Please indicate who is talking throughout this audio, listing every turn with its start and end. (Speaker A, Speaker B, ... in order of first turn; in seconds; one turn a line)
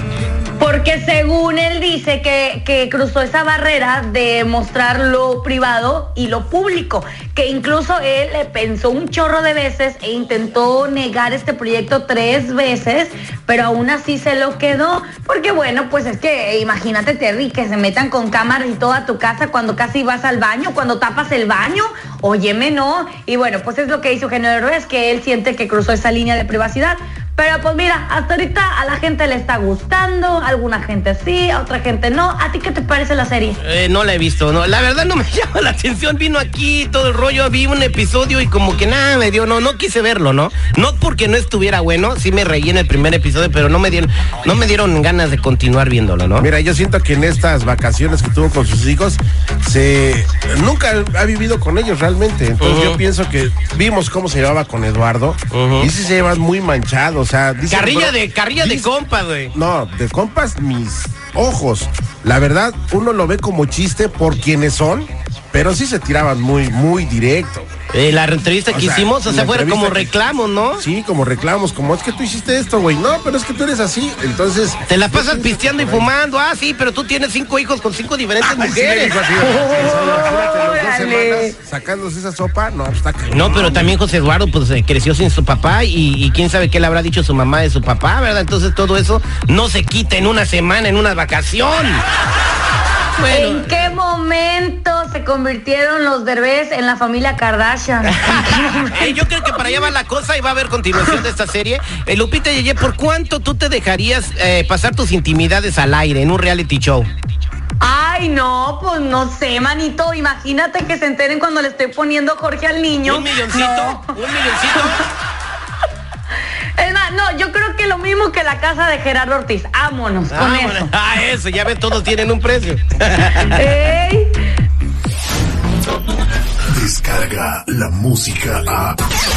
Speaker A: 0.6-33.6
Speaker B: 33.6-46.5
Speaker C: 46.4-58.9
Speaker B: 52.6-53.0
Speaker B: 55.5-55.9
Speaker B: 57.7-59.5
Speaker C: 59.5-67.7
Speaker B: 67.9-70.8
Speaker C: 68.7-70.2
Speaker C: 70.8-76.1
Speaker B: 74.9-79.3
Speaker C: 78.4-84.0
Speaker A: 79.4-81.6
Speaker B: 83.3-92.0
Speaker B: 93.2-93.9
Speaker A: 93.3-99.8
Speaker B: 98.1-107.1
Speaker A: 107.8-114.2
Speaker B: 113.0-115.0
Speaker A: 114.7-115.0
Speaker A: 116.8-120.9
Speaker B: 120.3-123.8
Speaker A: 123.5-124.4
Speaker D: 126.7-129.0